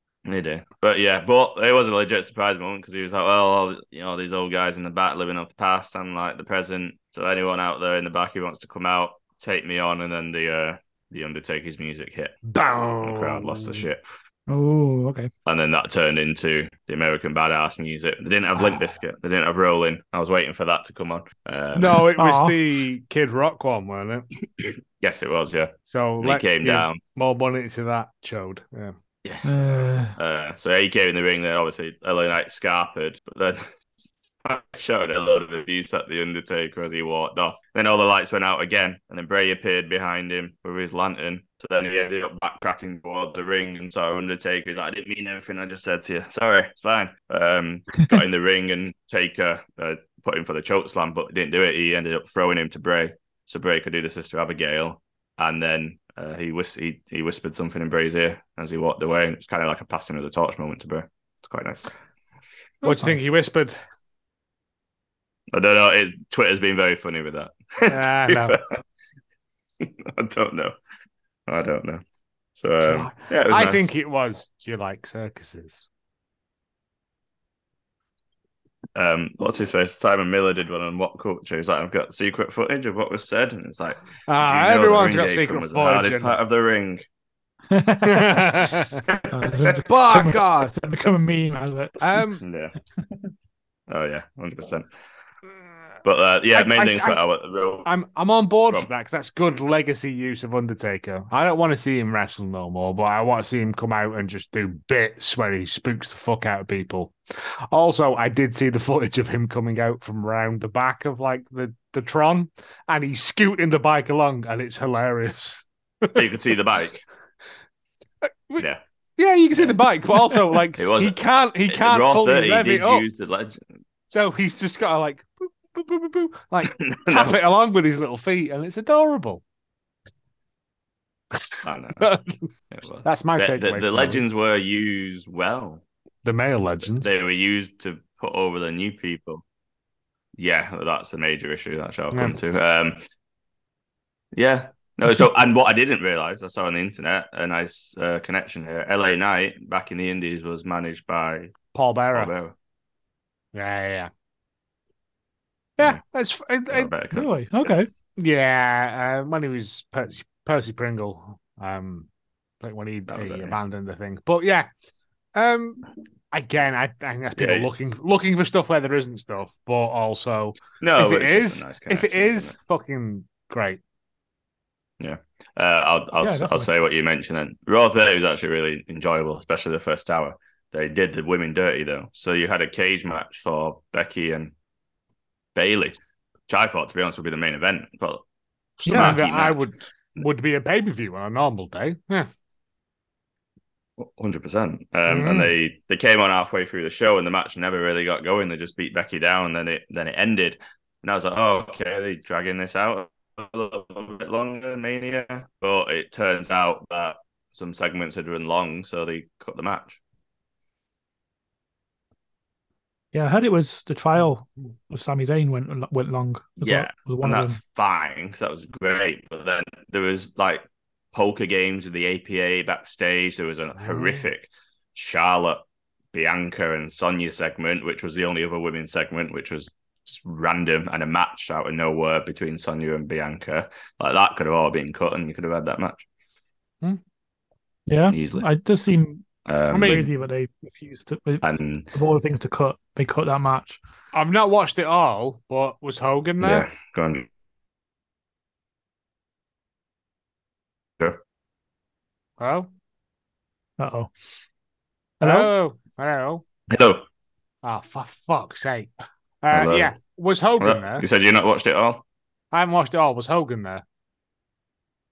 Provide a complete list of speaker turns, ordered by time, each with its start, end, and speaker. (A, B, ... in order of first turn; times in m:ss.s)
0:00.2-0:12.4 A
0:12.5-0:13.8 B
0:13.0-0:14.0 A
0:14.5-0:15.3 C
0:15.4-0:22.0 A
0:18.6-0:18.8 B
0:21.7-0:24.3 B
0:22.2-0:22.6 C
0:25.0-0:27.0 A
0:25.9-0:28.9 B
0:29.2-1:01.9 A
0:29.4-0:30.1 C
1:02.8-1:03.3 C
1:02.8-1:03.8 B
1:05.5-1:08.8 A
1:07.9-1:08.6 B
1:09.8-1:10.7 A
1:11.5-1:12.0 A
1:12.5-1:13.9 A
1:12.8-1:15.9 B
1:18.9-1:27.0 A
1:24.3-1:26.4 B
1:27.7-1:28.5 C
1:28.0-1:29.0 B
1:29.3-1:32.0 C
1:29.6-1:30.7 B
1:32.0-1:32.4 B
1:32.4-1:32.7 A
1:33.9-1:34.9 A
1:36.0-1:37.9 A
1:36.5-1:37.2 B
1:37.8-1:56.2 B
1:56.1-1:57.0 A
1:58.2-2:03.0 B
2:00.8-2:03.6 A
2:04.1-2:09.4 B
2:06.6-2:07.3 A
2:11.3-2:12.5 B
2:11.6-2:12.1 A
2:12.7-2:15.8 A
2:13.0-2:14.2 B
2:16.2-2:17.1 B
2:17.0-2:19.4 A
2:20.4-2:23.0 A
2:22.1-2:22.4 B
2:24.3-2:31.6 A
2:31.7-2:32.3 B
2:32.1-2:32.5 A
2:33.5-2:34.1 B
2:35.8-2:36.9 B
2:36.7-2:37.9 A
2:37.1-2:37.9 C
2:38.2-2:42.1 B
2:42.6-2:44.7 B
2:43.1-2:43.6 A
2:45.3-2:53.8 B
2:47.4-2:47.7 A
2:50.8-2:52.5 A
2:55.0-3:04.5 A
2:56.2-2:56.7 C
3:05.5-3:06.0 A
3:06.5-3:08.2 A
3:08.8-3:12.3 B
3:08.8-3:09.2 C
3:08.8-3:09.7 A
3:14.0-3:30.0 A
3:15.1-3:15.5 B
3:33.1-3:37.6 C
3:36.6-3:56.0 A
3:43.8-3:44.2 B
3:57.9-3:59.2 C
3:58.1-3:58.4 A
3:59.4-4:00.1 A
3:59.7-4:00.1 B
3:59.8-4:03.8 C
4:01.4-4:01.9 A
4:04.1-4:06.7 B
4:06.4-4:07.2 A
4:12.4-4:12.7 B
4:13.8-4:14.1 C
4:15.2-4:15.5 C
4:15.2-4:16.4 B
4:16.7-4:17.0 A
4:17.6-4:21.0 B
4:19.5-4:19.9 A
4:20.6-4:22.0 A
4:22.5-4:23.8 B